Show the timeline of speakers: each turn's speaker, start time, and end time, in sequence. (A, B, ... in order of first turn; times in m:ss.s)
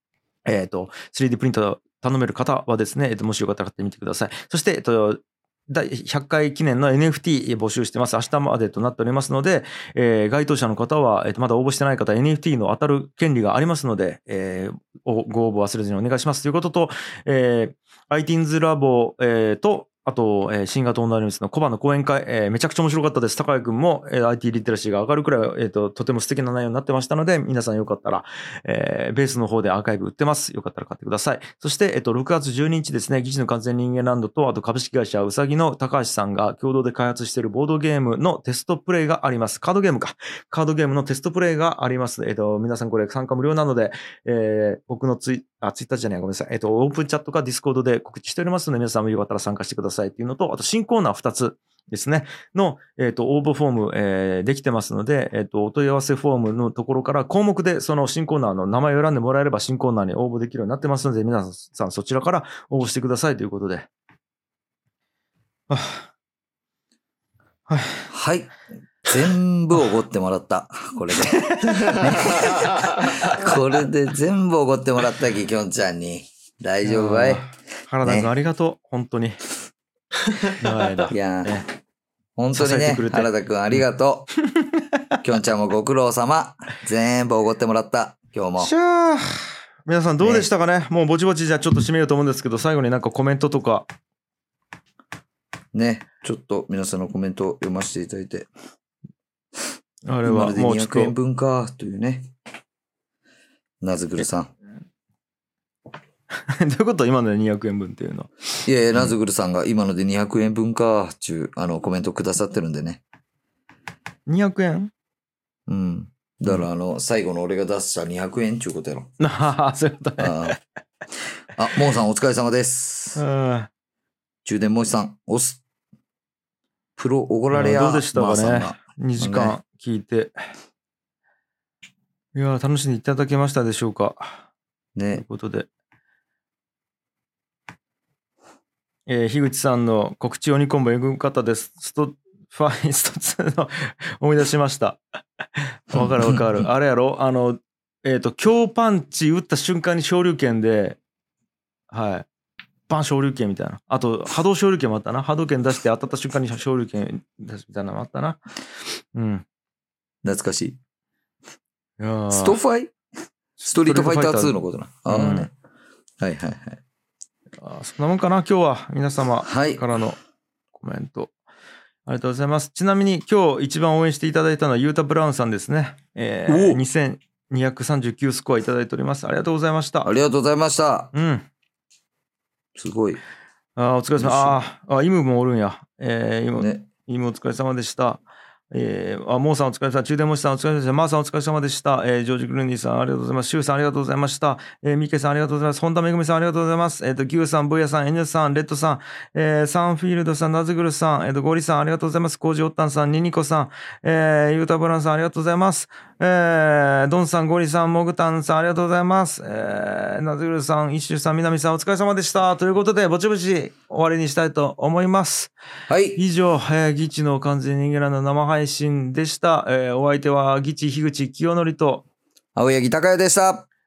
0:00.5-1:03.9 A
1:05.7-1:06.1 A
1:07.7-1:08.1 A
1:08.1-1:08.5 B
1:09.1-1:17.5 B
1:16.8-1:19.4 A
1:18.0-1:18.3 B
1:20.5-1:21.6 A
1:21.1-1:21.6 B
1:22.4-1:24.3 B
1:22.5-1:23.3 A
1:25.2-1:28.7 B
1:28.6-1:33.9 A
1:30.2-1:30.5 B
1:35.7-1:38.5 B
1:40.1-1:41.1 A
1:40.2-1:42.3 B
1:43.8-1:44.5 B
1:46.5-1:48.3 A
1:48.7-1:53.0 B
1:54.3-1:54.9 A
1:55.7-1:59.1 B
1:59.2-2:00.6 A
2:00.2-2:00.6 B
2:01.6-2:03.2 B
2:03.2-2:03.7 A
2:04.4-2:05.6 B
2:07.0-2:09.6 B
2:07.5-2:10.3 A
2:12.3-2:14.4 A
2:15.0-2:15.2 B
2:15.1-2:15.7 A
2:19.1-2:25.0 A
2:25.6-2:31.0 A
2:25.9-2:26.6 B
2:31.9-2:32.3 A
2:32.9-2:38.4 A
2:39.1-2:39.4 A
2:40.2-2:40.8 B
2:42.0-2:42.6 A
2:42.3-2:42.9 B
2:43.6-2:45.5 A
2:43.6-2:45.5 B
2:46.2-2:46.8 B
2:47.6-2:50.2 A
2:49.4-2:49.8 B
2:50.8-2:51.3 A
2:52.1-3:00.1 A
2:56.5-2:56.8 B
3:00.0-3:01.1 B
3:01.1-3:01.5 A
3:02.8-3:03.2 B
3:03.8-3:08.2 A
3:04.2-3:04.6 B
3:06.6-3:06.9 B
3:08.7-3:35.5 A
3:35.9-3:36.2 B
3:36.2-3:42.0 A
3:42.6-3:43.7 B